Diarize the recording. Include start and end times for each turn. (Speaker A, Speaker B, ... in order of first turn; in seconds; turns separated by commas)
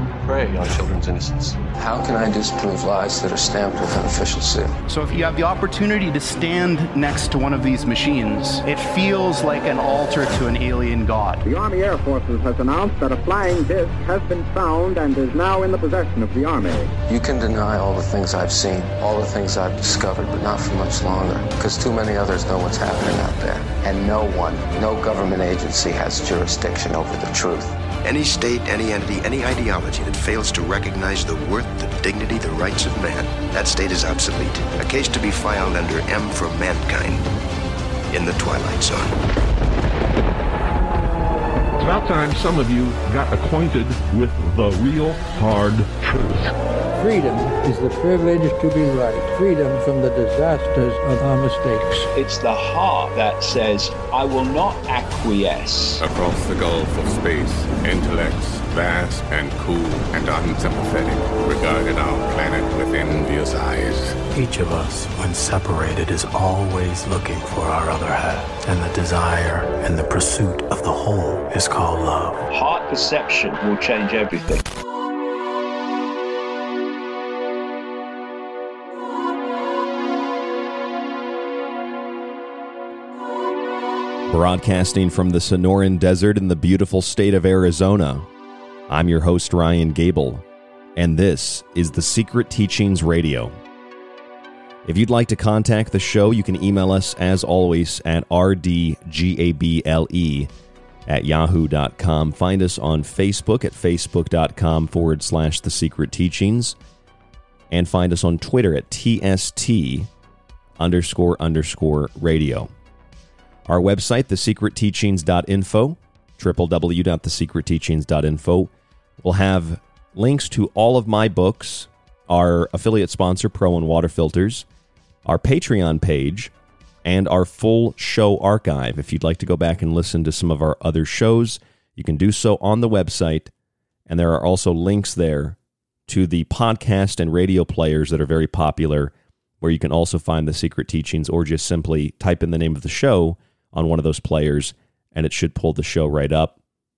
Speaker A: 0.3-1.6, Speaker B: 1.8-4.8, Speaker C: 4.9-11.4, Speaker D: 11.4-16.9, Speaker B: 17.1-27.8, Speaker E: 28.0-37.3, Speaker E: 38.1-39.1, Speaker F: 41.8-46.5, Speaker G: 47.0-52.1, Speaker H: 52.2-56.0, Speaker A: 56.0-64.2, Speaker I: 64.4-72.4, Speaker J: 84.3-88.3, Speaker J: 88.9-90.5, Speaker J: 91.0-93.6, Speaker J: 94.8-100.5, Speaker J: 101.1-106.8, Speaker J: 107.7-110.1, Speaker J: 110.8-112.7, Speaker J: 113.7-124.7, Speaker J: 125.2-126.5, Speaker J: 127.0-133.5, Speaker J: 134.1-135.6, Speaker J: 136.1-146.6